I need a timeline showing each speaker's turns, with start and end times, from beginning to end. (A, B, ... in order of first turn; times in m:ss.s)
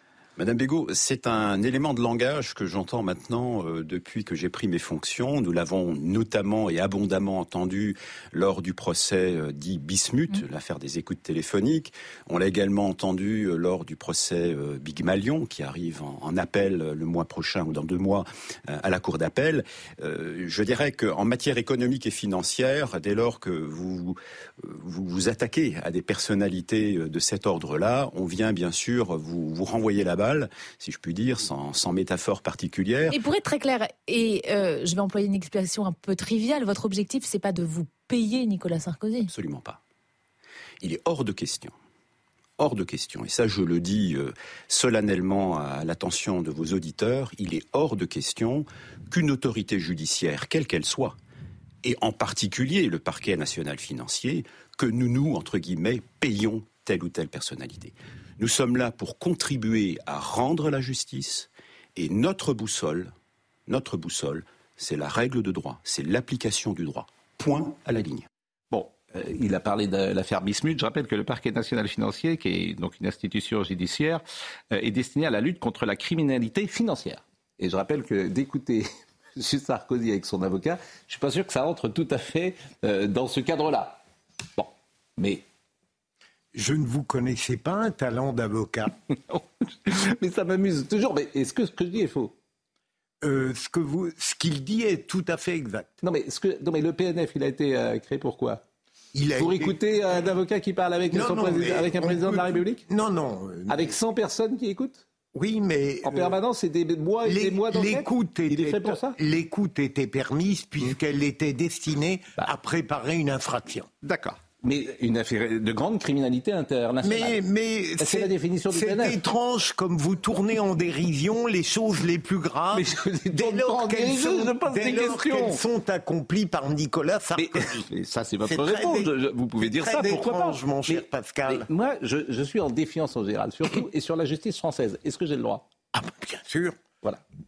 0:00.4-0:33.2 A
0:33.1-0:39.3 B
0:39.3-0:39.8 A
0:40.8-0:41.8 A
0:42.6-0:51.2 A
0:51.8-1:03.1 A
1:03.7-1:08.2 A
1:08.7-1:24.0 C
1:24.6-1:25.4 C
1:26.5-1:28.9 D
1:29.1-1:32.3 C
1:33.2-1:35.9 D
1:36.0-1:38.6 C
1:39.1-1:39.8 D
1:39.4-1:42.8 C
1:41.1-1:43.9 D
1:43.7-1:45.0 C
1:45.3-1:46.4 D
1:46.0-1:49.2 C
1:47.2-1:53.9 D
1:54.0-1:57.4 C
1:57.0-2:07.8 D
1:58.0-1:59.2 C
2:02.7-2:05.6 C
2:07.4-2:15.6 C
2:08.5-2:11.7 D
2:15.9-2:16.8 D